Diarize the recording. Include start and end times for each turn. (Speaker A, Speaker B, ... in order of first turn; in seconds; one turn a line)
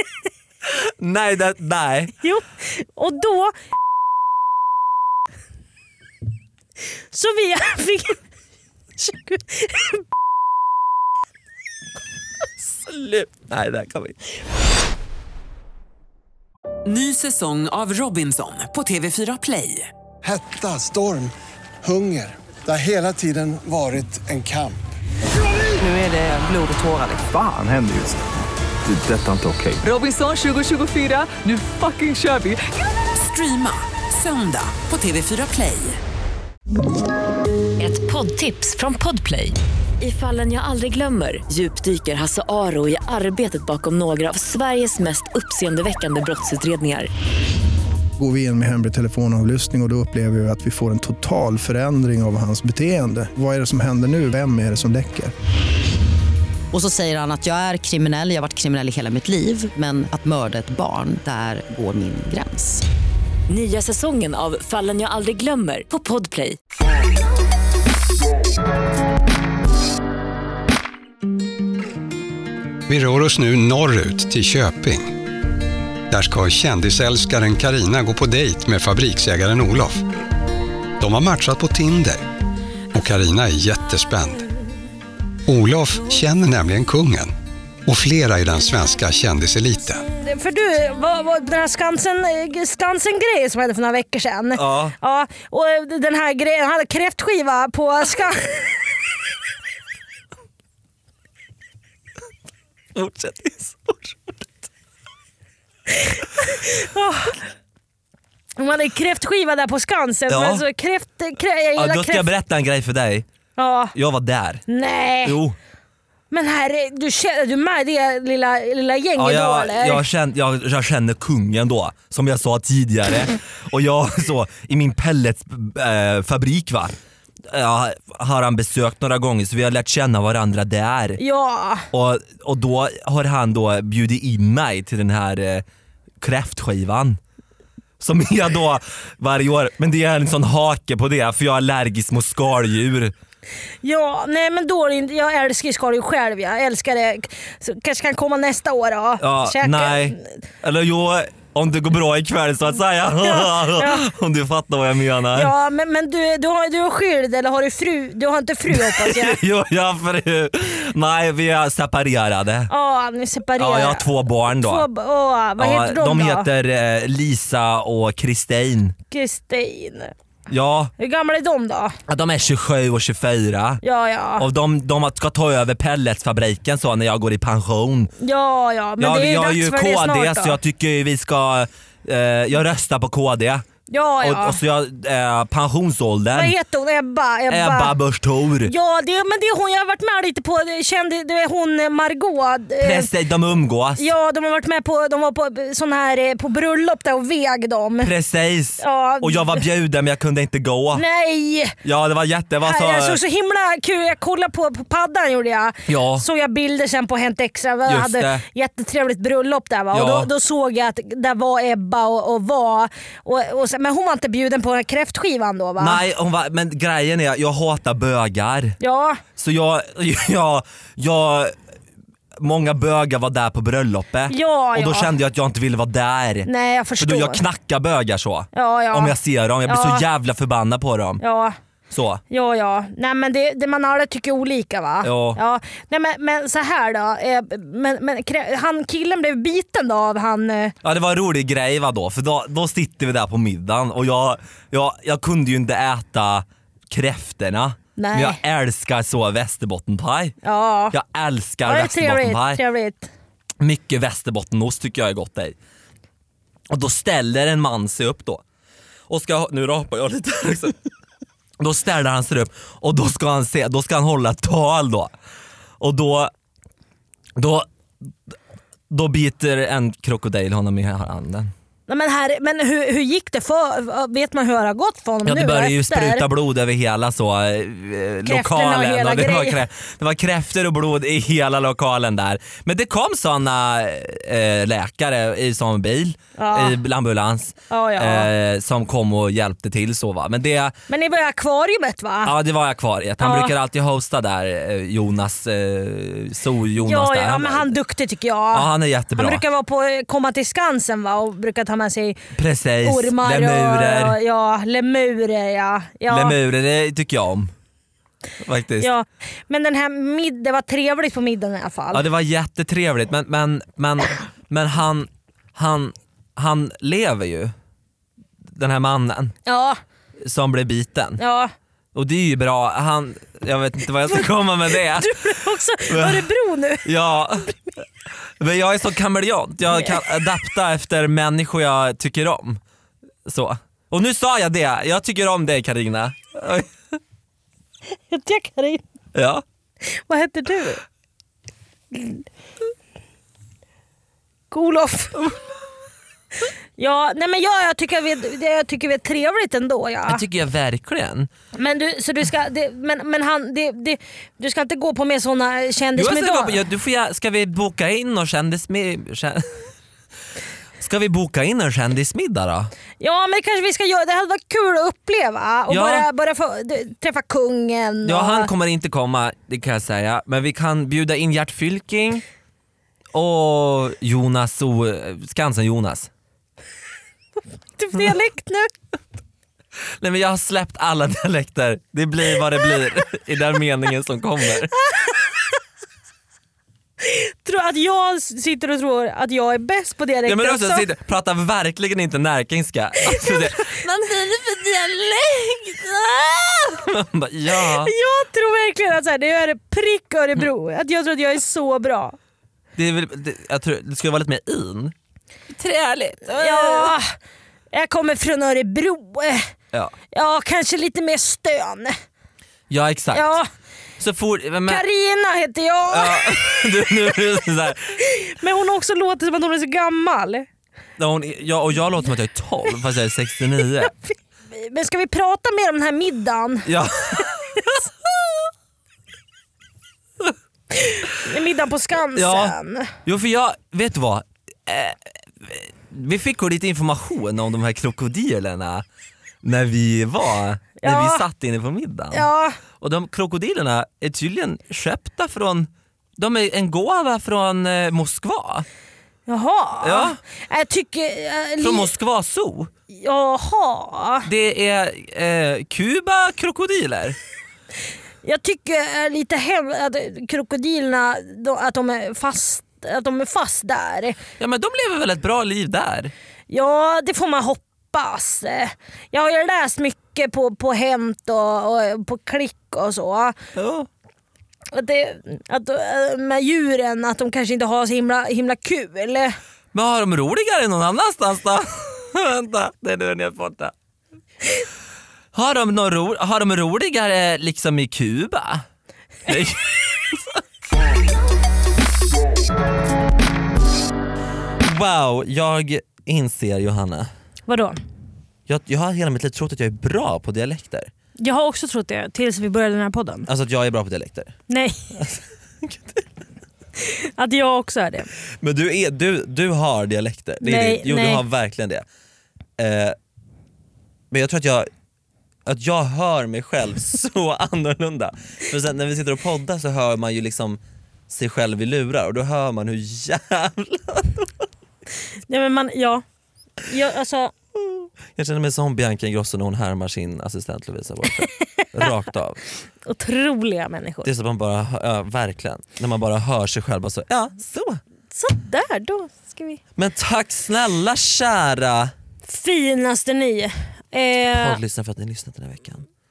Speaker A: 1.0-2.1
Speaker B: 2.2-3.5
Speaker B: 7.1-8.2
Speaker B: 9.0-10.0
Speaker A: 12.6-14.2
Speaker C: 16.9-19.9
Speaker D: 20.2-24.8
Speaker C: 25.8-27.2
Speaker E: 27.2-28.2
Speaker E: 28.9-29.8
Speaker C: 29.8-32.6
Speaker C: 33.1-36.0
Speaker F: 37.8-47.1
Speaker G: 48.2-55.3
Speaker H: 56.7-62.8
Speaker F: 63.5-66.6
Speaker I: 72.9-75.1
Speaker I: 76.1-80.0
Speaker I: 81.0-82.2
Speaker I: 82.9-84.5
Speaker I: 85.5-87.3
Speaker I: 87.9-90.0
Speaker B: 90.2-98.8
Speaker A: 94.6-95.0
Speaker A: 103.0-104.5
Speaker B: 105.9-107.4
Speaker B: 108.6-112.3
Speaker A: 110.3-110.7
Speaker A: 111.8-113.3
Speaker B: 113.6-113.9
Speaker A: 113.9-114.6
Speaker B: 114.7-115.4
Speaker A: 115.2-115.6
Speaker B: 116.3-120.0
Speaker A: 119.2-127.0
Speaker A: 127.5-131.2
Speaker B: 131.2-131.9
Speaker A: 131.9-135.7
Speaker A: 136.2-137.2
Speaker A: 138.0-143.1
Speaker B: 143.8-150.2
Speaker A: 149.2-155.5
Speaker B: 153.2-154.1
Speaker B: 155.4-159.4
Speaker A: 158.7-162.7
Speaker B: 162.7-166.5
Speaker A: 163.6-164.9
Speaker A: 165.6-169.0
Speaker B: 169.1-170.1
Speaker A: 170.5-170.9
Speaker B: 171.0-172.0
Speaker A: 172.1-173.8
Speaker B: 173.8-174.5
Speaker A: 174.4-178.1
Speaker B: 178.2-180.6
Speaker A: 179.0-183.7
Speaker B: 183.9-184.6
Speaker A: 184.2-186.6
Speaker B: 186.3-187.9
Speaker A: 187.5-188.7
Speaker B: 188.7-193.1
Speaker A: 192.8-194.1
Speaker B: 194.0-198.1
Speaker A: 198.0-201.0
Speaker B: 198.8-199.6
Speaker B: 200.9-201.8
Speaker A: 201.8-203.2
Speaker B: 202.6-216.0
Speaker A: 205.9-206.2
Speaker A: 207.9-208.4
Speaker A: 209.9-210.3
Speaker A: 215.8-218.8
Speaker B: 218.8-219.2
Speaker A: 219.4-221.6
Speaker A: 222.4-226.5
Speaker B: 224.3-225.1
Speaker B: 226.5-227.4
Speaker A: 227.0-231.2
Speaker B: 228.5-229.2
Speaker B: 229.7-230.1
Speaker B: 231.2-231.6
Speaker A: 231.9-232.2
Speaker B: 232.3-240.8
Speaker A: 235.0-235.4
Speaker A: 240.8-250.4
Speaker B: 248.0-248.4
Speaker B: 250.4-250.9
Speaker A: 250.9-252.6
Speaker B: 251.7-253.1
Speaker A: 253.6-255.6
Speaker A: 256.7-258.4
Speaker A: 259.1-260.8
Speaker A: 261.6-265.1
Speaker A: 265.8-266.3
Speaker A: 267.4-267.7
Speaker A: 268.9-271.5
Speaker B: 271.9-276.2
Speaker A: 275.2-290.8
Speaker B: 278.3-279.6
Speaker B: 286.4-286.8
Speaker B: 287.7-288.3
Speaker B: 290.9-292.3
Speaker A: 292.2-297.7
Speaker B: 293.2-293.5
Speaker B: 296.8-302.2
Speaker A: 298.5-299.4
Speaker A: 302.3-304.2
Speaker B: 302.8-306.4
Speaker A: 306.1-307.5
Speaker A: 308.4-308.9
Speaker B: 308.8-312.1
Speaker A: 311.9-317.5
Speaker A: 318.6-319.3
Speaker B: 319.5-319.8
Speaker A: 320.2-321.2
Speaker B: 321.2-321.5
Speaker A: 321.9-326.3
Speaker B: 324.1-326.9
Speaker A: 326.8-327.5
Speaker A: 328.4-332.6
Speaker B: 329.7-330.1
Speaker A: 333.3-337.0
Speaker B: 338.1-338.8
Speaker A: 339.1-339.4
Speaker B: 339.9-340.8
Speaker B: 341.9-342.2
Speaker B: 344.5-345.2
Speaker B: 346.8-350.2
Speaker A: 350.1-351.3
Speaker B: 351.6-356.6
Speaker A: 356.0-359.5
Speaker A: 360.8-362.7
Speaker B: 363.0-368.5
Speaker A: 365.7-366.1
Speaker A: 368.1-372.2
Speaker A: 373.1-376.1
Speaker B: 377.8-378.7
Speaker A: 380.0-384.8
Speaker B: 384.9-385.3
Speaker B: 387.0-390.9
Speaker A: 390.3-394.8
Speaker B: 393.1-396.5
Speaker A: 396.7-397.9
Speaker B: 397.8-402.2
Speaker A: 402.8-404.9
Speaker A: 405.5-406.9
Speaker B: 406.3-407.1
Speaker B: 407.7-409.5
Speaker B: 410.1-411.9
Speaker A: 412.7-413.4
Speaker B: 413.1-413.5
Speaker A: 414.0-414.8
Speaker B: 414.7-416.9
Speaker A: 415.9-418.0
Speaker B: 418.0-420.5
Speaker A: 421.0-423.9
Speaker B: 423.8-426.7
Speaker A: 426.7-427.8
Speaker B: 427.2-427.8
Speaker B: 430.7-432.9
Speaker A: 432.1-438.9
Speaker A: 439.4-448.7
Speaker B: 440.8-441.2
Speaker B: 442.1-442.6
Speaker B: 449.3-451.9
Speaker A: 449.8-450.2
Speaker A: 451.6-452.7
Speaker B: 452.9-454.3
Speaker A: 454.3-457.2
Speaker B: 458.2-464.2
Speaker A: 464.4-466.1
Speaker B: 466.5-473.4
Speaker A: 473.6-473.9
Speaker B: 474.7-479.4
Speaker A: 479.7-483.7
Speaker A: 485.3-488.6
Speaker A: 489.3-490.4
Speaker A: 494.6-497.1
Speaker B: 497.5-497.8
Speaker A: 498.5-500.9
Speaker B: 501.2-503.3
Speaker A: 503.3-504.4
Speaker B: 504.5-505.0
Speaker A: 505.0-506.0
Speaker B: 506.8-508.1
Speaker A: 508.4-511.8
Speaker B: 510.4-511.2
Speaker A: 512.6-513.0
Speaker A: 514.1-514.7
Speaker A: 515.5-524.3
Speaker B: 525.3-526.0
Speaker B: 526.6-527.3
Speaker A: 528.1-532.4
Speaker B: 531.2-531.8
Speaker B: 532.9-534.1
Speaker A: 534.0-537.8
Speaker B: 538.1-539.6
Speaker A: 539.8-541.9
Speaker B: 542.2-544.6
Speaker A: 544.3-545.9